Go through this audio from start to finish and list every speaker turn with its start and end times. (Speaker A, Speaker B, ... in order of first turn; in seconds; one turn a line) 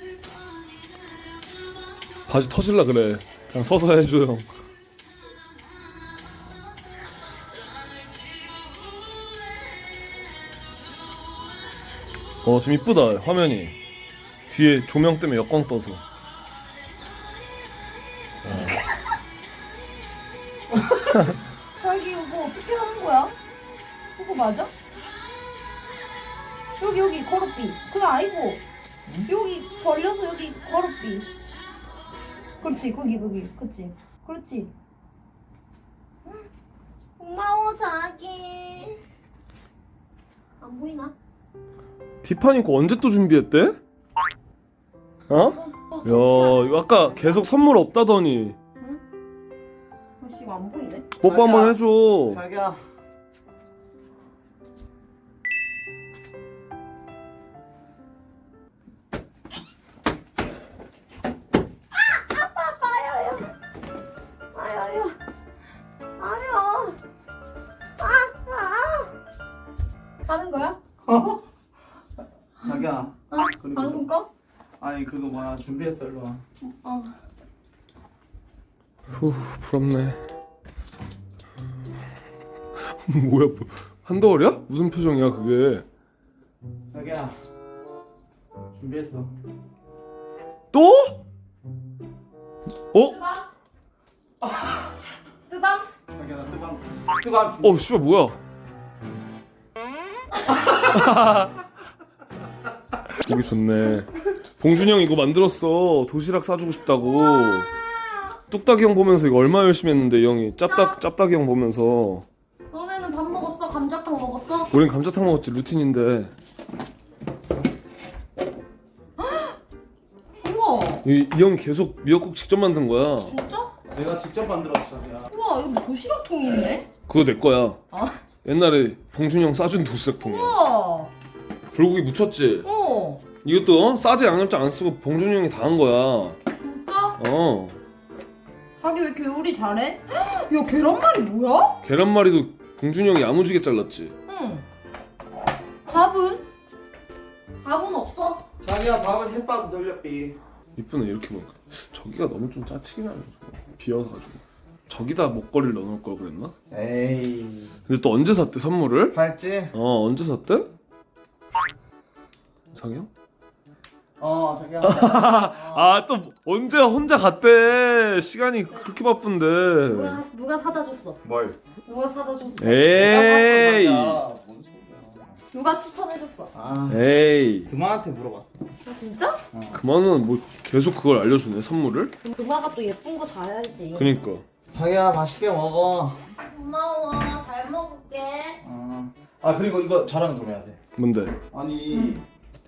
Speaker A: 2.3-4.5
Speaker A: 12.4-13.8
Speaker A: 14.5-16.0
Speaker B: 21.8-23.3
Speaker B: 24.1-24.7
Speaker B: 26.8-28.6
Speaker B: 29.3-31.3
Speaker B: 32.6-34.7
Speaker B: 37.2-39.0
Speaker B: 40.6-41.1
Speaker A: 42.2-43.8
Speaker A: 45.3-48.5
Speaker B: 45.3-47.5
Speaker B: 50.2-51.1
Speaker A: 51.2-52.4
Speaker C: 51.2-52.8
Speaker B: 61.9-63.5
Speaker B: 64.5-65.2
Speaker B: 66.2-67.0
Speaker B: 68.0-69.1
Speaker B: 70.2-70.8
Speaker C: 71.0-71.4
Speaker C: 72.6-74.0
Speaker B: 73.3-74.3
Speaker C: 74.8-76.4
Speaker B: 76.6-77.1
Speaker A: 79.1-80.2
Speaker A: 82.8-85.8
Speaker C: 86.9-87.3
Speaker C: 88.7-89.3
Speaker A: 90.7-91.2
Speaker B: 93.0-93.5
Speaker B: 95.5-96.0
Speaker C: 96.1-97.8
Speaker A: 97.6-98.4
Speaker A: 100.8-101.5
Speaker A: 103.2-107.7
Speaker B: 107.0-108.3
Speaker A: 108.5-112.2
Speaker B: 110.7-111.0
Speaker B: 112.7-114.7
Speaker A: 114.7-116.3
Speaker B: 119.2-119.6
Speaker B: 120.4-121.0
Speaker A: 121.0-123.3
Speaker B: 123.2-123.7
Speaker C: 123.9-125.3
Speaker B: 125.3-126.9
Speaker A: 127.1-127.8
Speaker B: 127.9-128.2
Speaker A: 128.4-130.6
Speaker B: 130.2-131.1
Speaker A: 131.7-132.7
Speaker B: 132.6-133.2
Speaker A: 133.4-136.4
Speaker B: 136.6-137.2
Speaker A: 137.2-137.7
Speaker B: 138.8-141.8
Speaker A: 141.8-144.1
Speaker B: 144.3-144.6
Speaker B: 145.9-146.4
Speaker B: 147.6-148.4
Speaker C: 148.6-150.4
Speaker A: 150.8-156.5
Speaker C: 156.7-157.8
Speaker A: 157.9-159.2
Speaker C: 159.1-159.7
Speaker A: 159.7-160.7
Speaker A: 162.7-163.1
Speaker C: 164.2-165.9
Speaker A: 164.8-170.2
Speaker B: 169.8-171.2
Speaker C: 171.2-171.6
Speaker B: 171.8-173.2
Speaker A: 172.6-174.2
Speaker C: 172.9-175.4
Speaker B: 175.5-176.5
Speaker C: 176.5-177.1
Speaker A: 176.9-177.7
Speaker C: 177.7-178.7
Speaker B: 178.8-179.4
Speaker C: 179.5-179.8
Speaker A: 179.7-182.1
Speaker B: 182.2-184.1
Speaker A: 183.9-184.4
Speaker C: 184.7-186.2
Speaker B: 186.4-188.6
Speaker C: 188.6-190.8
Speaker A: 191.0-191.3
Speaker C: 191.5-192.2
Speaker B: 191.9-192.2